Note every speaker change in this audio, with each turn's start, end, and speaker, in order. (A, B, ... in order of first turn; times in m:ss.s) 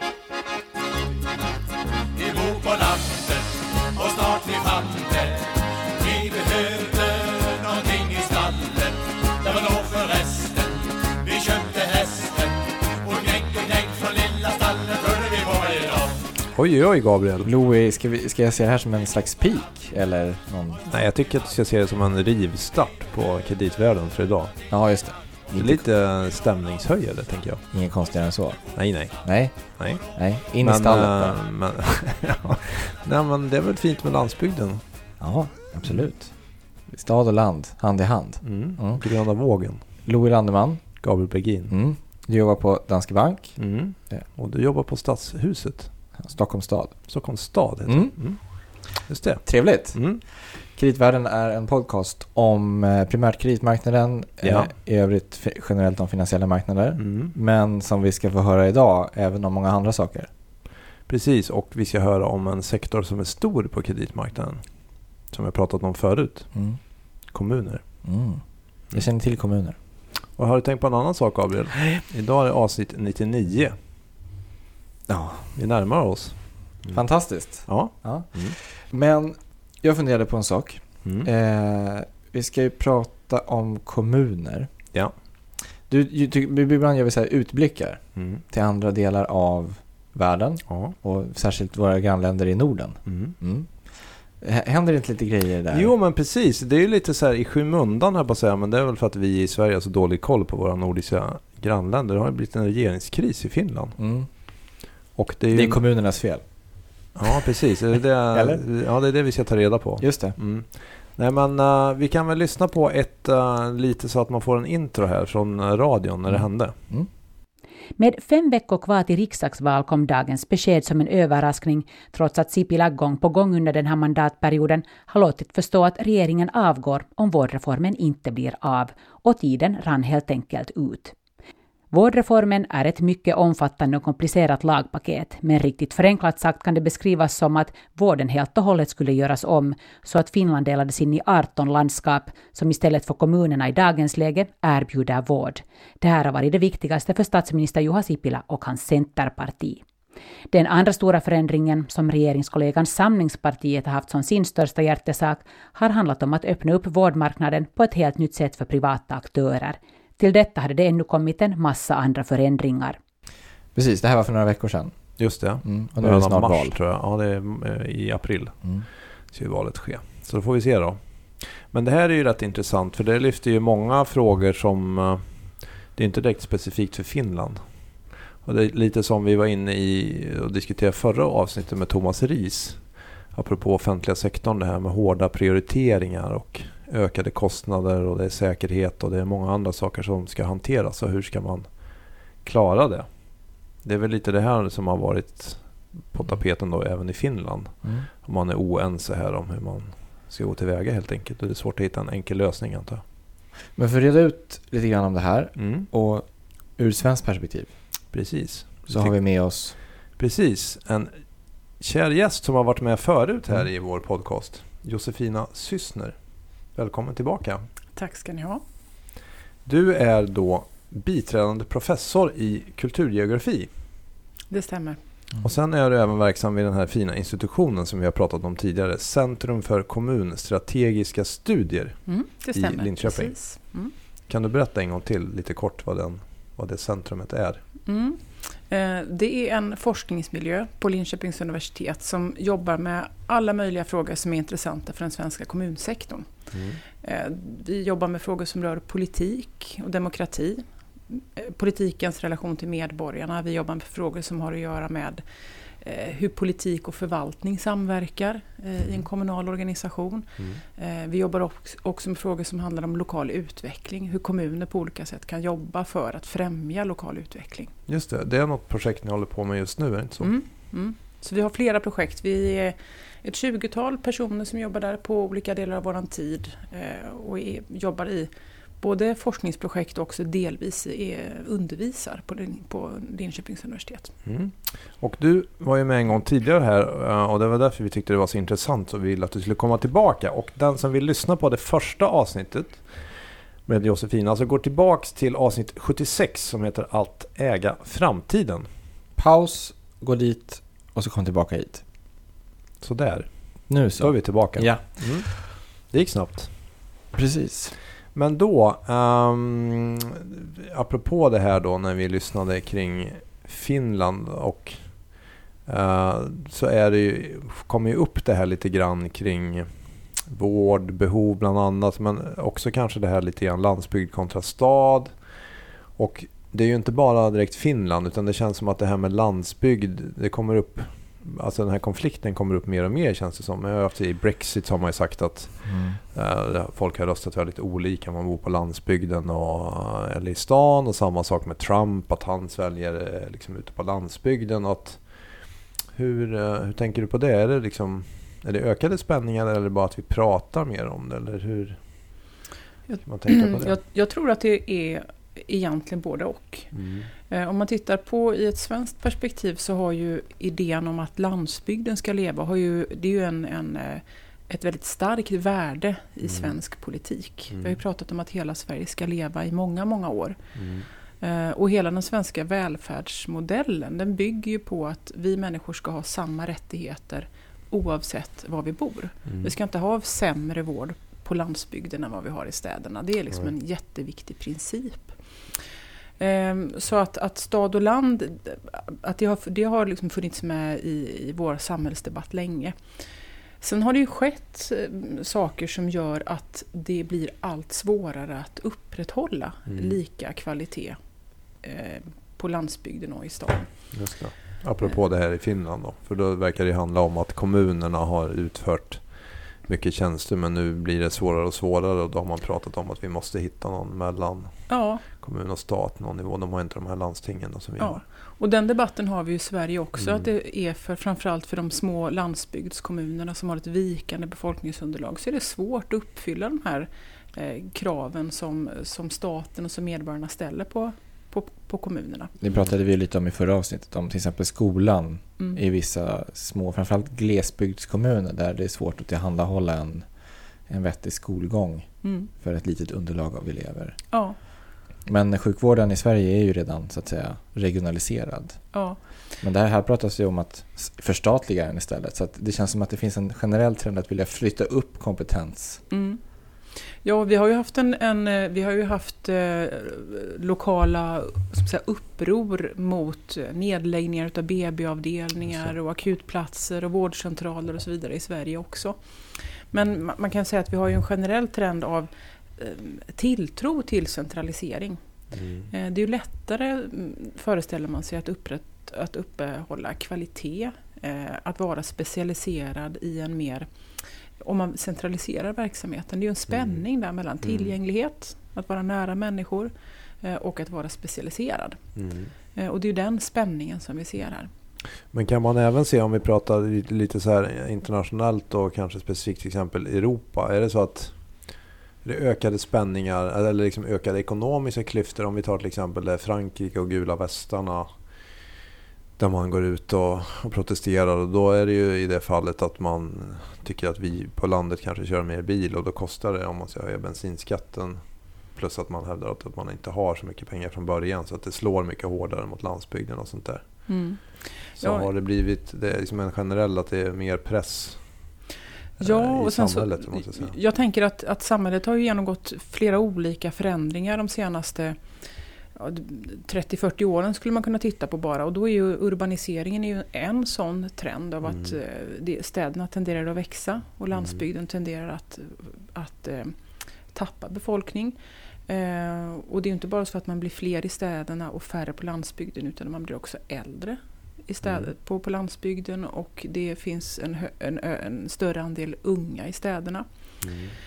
0:02.2-0:16.2 A
0:16.5-0:17.5 B
0:17.4-0:20.8 C
0:20.9-0:24.6 B
0:24.7-0:25.8 C
0:25.5-0:27.6 B
0:27.7-0:31.4 C
0:28.8-0:35.2 B
0:35.2-0:39.1 C
0:35.8-0:36.1 B
0:38.4-0:39.8 B
0:40.0-0:41.2 C
0:41.0-0:41.7 B
0:41.7-0:44.2 C
0:43.6-0:45.9 B
0:46.2-0:48.7 C
0:47.1-0:50.2 B
0:49.4-1:00.3 C
0:54.4-0:54.7 B
0:57.0-0:57.3 B
1:01.1-1:08.1 B
1:06.5-1:06.8 C
1:08.0-1:09.8 C
1:10.3-1:13.8 B
1:15.1-1:15.6 C
1:15.6-1:18.6 B
1:16.9-1:24.9 C
1:21.0-1:21.3 B
1:25.8-1:35.9 C
1:28.2-1:28.4 B
1:30.7-1:31.0 B
1:33.1-1:33.4 B
1:35.7-1:44.6 B
1:44.0-1:44.3 C
1:45.2-1:45.9 B
1:45.5-1:47.3 C
1:47.2-1:56.8 B
1:48.3-1:48.6 C
1:50.0-1:50.4 C
1:56.3-1:57.1 C
1:58.0-2:11.2 D
2:11.9-2:29.8 D
2:30.5-2:43.0 D
2:43.8-2:46.8 C
2:45.2-3:23.0 B
3:23.8-3:27.8 C
3:25.6-3:25.9 B
3:28.1-3:37.7 B
3:28.9-3:29.8 C
3:38.0-3:38.6 E
3:39.6-3:43.7 B
3:44.5-3:45.0 E
3:45.4-3:53.8 B
3:52.1-3:53.9 E
3:54.3-3:57.6 B
3:57.9-4:06.3 E
4:06.5-4:06.8 B
4:07.0-4:27.7 E
4:27.9-4:30.3 B
4:30.2-4:44.1 E
4:44.2-4:58.7 B
4:59.2-5:01.8 C
5:02.8-5:06.8 B
5:03.7-5:05.3 C
5:07.1-5:07.8 C
5:08.1-5:25.4 B
5:26.0-5:52.3 B
5:35.7-5:36.0 C
5:52.9-5:56.8 E
5:53.0-5:53.8 B
5:56.7-5:57.1 B
5:57.3-6:10.4 E
6:06.2-6:06.6 B
6:07.5-6:07.8 B
6:10.6-6:10.9 B
6:11.1-6:25.4 E
6:19.3-6:19.5 B
6:26.2-6:32.8 E
6:33.6-6:41.0 E
6:39.7-6:40.0 B
6:41.6-6:43.9 E
6:43.9-6:58.0 B
6:54.7-6:55.0 E
6:57.8-7:12.3 E
7:00.0-7:00.3 B
7:12.4-7:20.1 C
7:20.6-7:24.4 C
7:22.0-7:22.3 E
7:24.1-7:24.4 E
7:25.0-7:35.8 C
7:28.7-7:29.0 E
7:35.9-7:36.2 E
7:36.7-7:55.0 E
7:55.3-7:55.7 B
7:55.7-8:11.9 E
8:06.5-8:06.8 B
8:07.4-8:07.8 B
8:12.0-8:12.3 B
8:12.5-8:14.5 E
8:15.1-8:28.0 B
8:29.2-8:48.4 B
8:43.9-8:45.1 E
8:49.0-8:50.6 B
8:49.0-8:55.2 E
8:55.7-9:08.2 E
9:01.4-9:01.8 B
9:04.1-9:04.4 B
9:08.7-9:20.1 E
9:14.6-9:14.9 B
9:20.4-9:20.8 B